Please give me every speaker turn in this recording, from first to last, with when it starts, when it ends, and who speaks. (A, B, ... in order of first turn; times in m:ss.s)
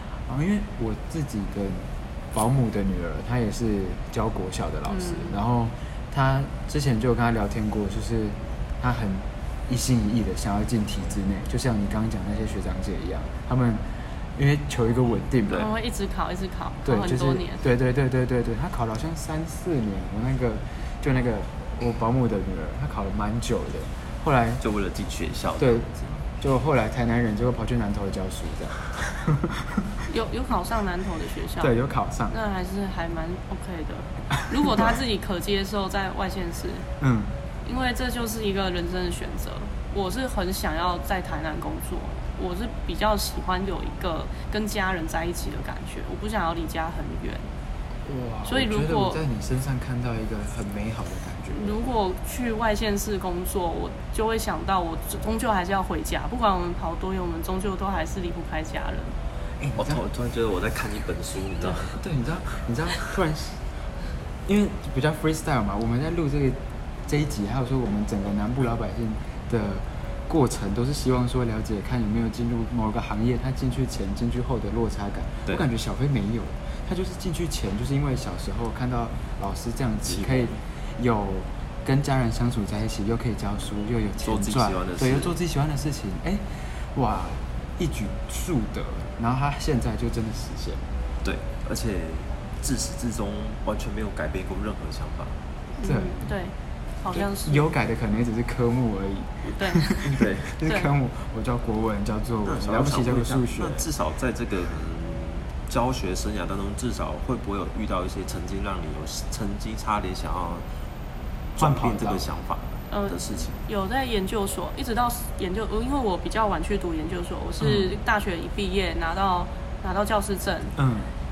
0:00.3-0:15.6 A
0:04.9-0:05.4 B
0:15.5-0:17.6 B
0:16.8-0:24.6 A
0:24.6-0:26.0 C
0:25.6-0:29.9 A
0:30.1-0:31.7 B
0:31.6-0:32.3 A
0:32.3-0:36.9 B
0:34.6-0:35.0 A
0:37.0-0:37.4 A
0:37.6-0:47.4 B
0:48.0-0:51.8 A
0:48.5-0:49.2 B
0:51.5-0:59.1 B
0:59.6-1:00.0 A
0:59.8-1:02.0 C
1:01.6-1:03.6 A
1:04.5-1:30.8 A
1:20.0-1:20.6 C
1:24.2-1:25.4 C
1:31.2-1:35.3 C
1:35.8-1:37.6 B
1:35.8-1:36.3 A
1:37.1-1:43.9 A
1:39.6-1:40.9 B
1:40.1-1:40.6 C
1:42.4-1:50.6 C
1:51.6-1:53.6 C
1:51.6-1:52.2 A
1:52.9-2:00.8 B
1:57.6-1:58.0 A
2:00.8-2:01.1 A